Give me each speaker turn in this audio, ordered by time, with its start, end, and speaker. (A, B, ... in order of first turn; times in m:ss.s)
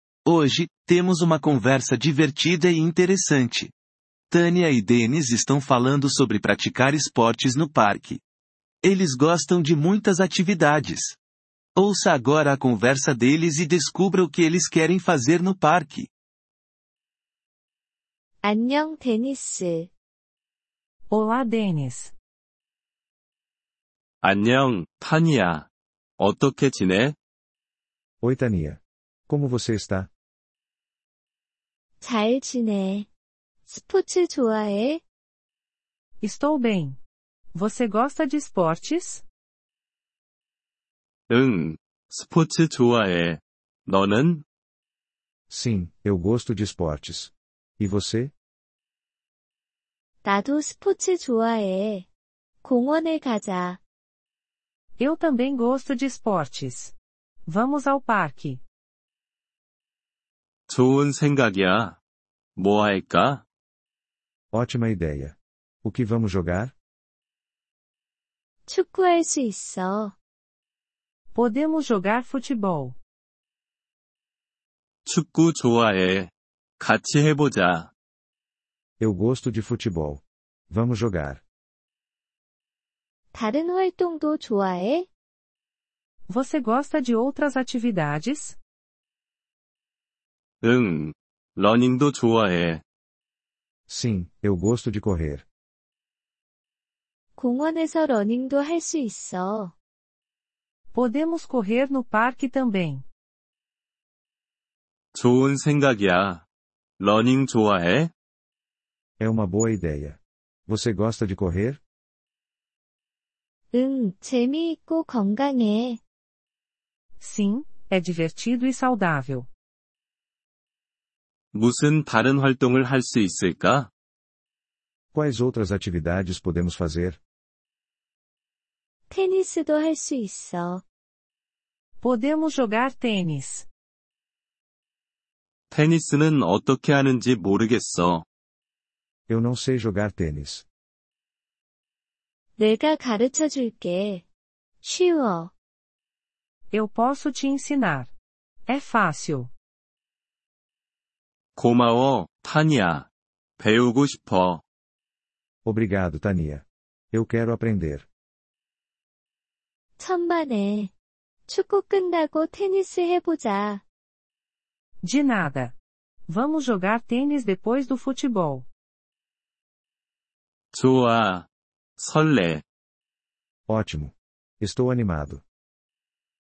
0:00.2-0:03.7 A
0:04.3-0:08.2 A
0:08.8-0:11.2 A
0:11.8-0:16.1 A
0:18.4-0:19.9 B
0:21.1-0:22.1 C
0:24.2-0:27.2 D
0:28.2-0:30.1 E
0:32.0-0:33.1 B
0:33.7-0:35.0 B
0:36.2-0:37.0 C
0:37.5-0:39.2 C
0:41.3-0:44.4 D
0:45.5-0:48.3 E
0:50.2-0:52.1 B
0:52.6-0:53.8 B
0:55.0-0:56.9 C
0:57.5-0:58.6 C
1:00.7-1:02.0 D
1:02.6-1:03.4 D
1:04.5-1:06.7 E
1:08.7-1:10.1 B
1:11.3-1:13.0 C
1:15.0-1:17.9 D
1:19.0-1:21.4 E
1:23.3-1:25.1 B
1:26.3-1:28.6 C
1:30.6-1:32.8 D
1:33.9-1:35.4 E
1:37.4-1:39.7 B
1:40.9-1:43.0 C
1:45.1-1:46.4 D
1:47.0-1:48.1 D
1:49.2-1:51.8 E
1:53.7-1:56.0 B
1:57.2-1:59.5 C
2:01.5-2:03.9 D
2:05.1-2:07.2 E
2:09.1-2:10.8 B
2:12.0-2:13.7 C
2:15.7-2:18.2 D
2:19.3-2:20.6 E
2:22.6-2:24.2 B
2:24.8-2:25.5 B
2:26.7-2:28.1 C
2:28.7-2:29.5 C
2:31.6-2:34.6 D
2:35.6-2:38.1 E
2:40.0-2:40.9 B
2:41.5-2:43.8 B
2:45.0-2:45.7 C
2:46.3-2:48.6 C
2:50.7-2:52.6 D
2:53.7-2:55.4 E